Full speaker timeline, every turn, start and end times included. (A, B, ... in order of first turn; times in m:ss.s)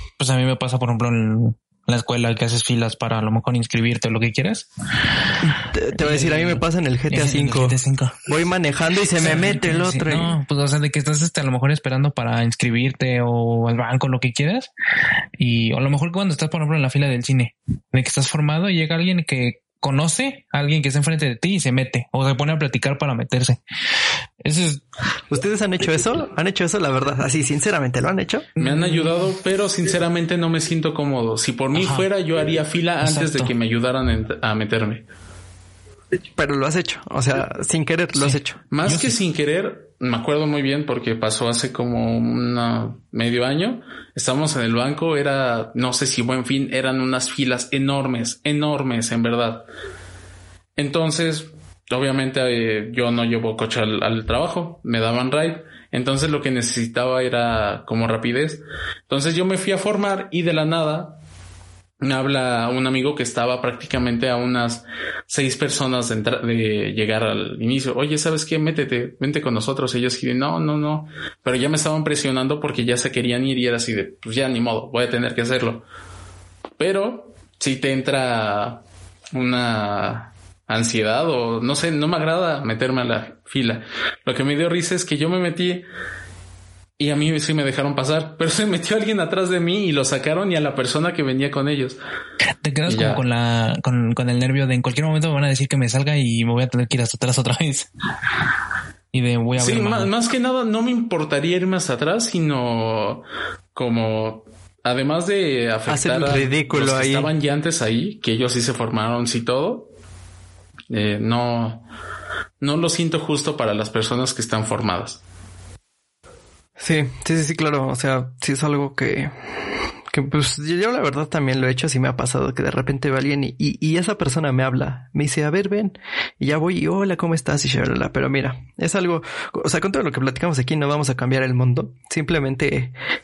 0:00.2-0:04.7 A
0:05.4-0:10.4 B
0:06.0-0:08.2 A
0:09.1-0:14.7 A
0:15.4-0:23.6 A
0:24.4-0:24.8 A
0:25.3-0:28.5 B
0:28.6-0:29.1 A
0:28.6-0:35.0 C
0:31.8-0:32.1 A
0:33.0-0:33.5 A
0:36.4-0:38.6 B
0:38.2-0:39.2 A
0:38.7-0:49.7 C
0:50.8-1:01.2 C
1:02.0-1:15.8 C
1:16.8-1:18.8 C
1:19.3-1:25.8 C
1:27.0-1:32.0 C
1:32.6-1:37.9 A
1:32.9-1:33.2 C
1:39.1-1:40.1 A
1:39.6-1:43.2 C
1:43.8-1:49.9 C
1:45.9-1:47.3 B
1:50.9-1:51.8 C
1:52.6-1:55.2 C
1:56.8-1:59.6 B
2:00.1-2:12.9 B